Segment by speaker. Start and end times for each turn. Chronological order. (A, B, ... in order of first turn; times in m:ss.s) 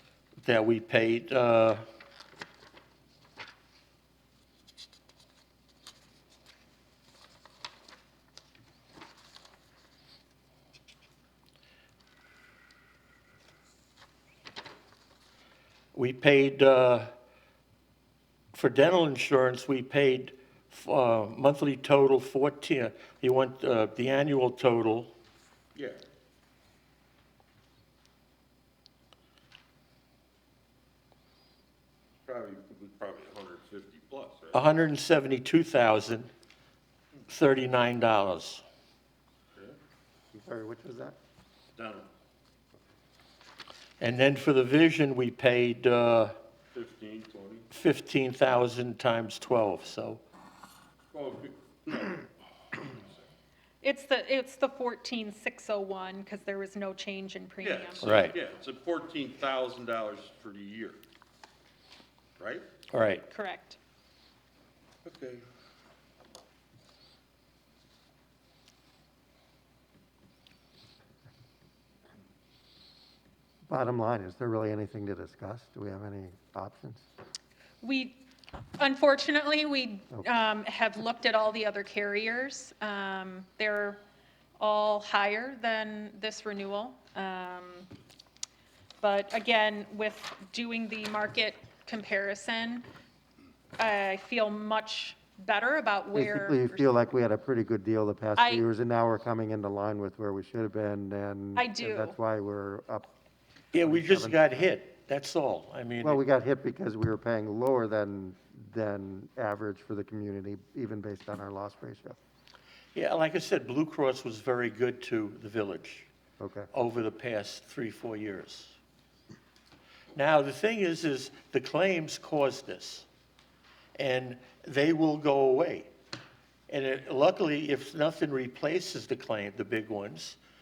0:00.4-0:01.8 A
0:16.0-0:17.1 A
0:18.5-0:25.1 A
0:32.3-0:34.7 B
0:34.5-0:36.3 A
0:37.3-0:38.6 A
0:40.4-0:41.2 C
0:41.8-0:42.1 B
0:44.0-0:46.3 A
0:46.8-0:47.7 B
0:47.7-0:50.2 A
0:51.1-0:53.0 B
0:53.8-0:58.3 D
0:57.6-1:01.0 B
0:58.0-0:58.4 A
1:02.4-1:02.6 B
1:02.9-1:03.2 A
1:03.3-1:03.8 D
1:05.0-1:05.4 B
1:13.7-1:17.0 C
1:17.8-1:18.2 D
1:18.8-1:24.0 D
1:24.6-1:27.9 D
1:29.0-1:32.8 D
1:33.8-1:36.9 D
1:36.1-1:43.1 C
1:38.4-1:38.7 D
1:41.6-1:42.2 D
1:43.7-1:46.2 A
1:43.8-1:44.6 C
1:46.0-1:52.2 C
1:53.0-1:56.1 A
1:56.4-1:56.7 C
1:56.7-1:58.8 A
2:00.2-2:03.1 A
2:04.0-2:05.9 A
2:06.7-2:10.4 A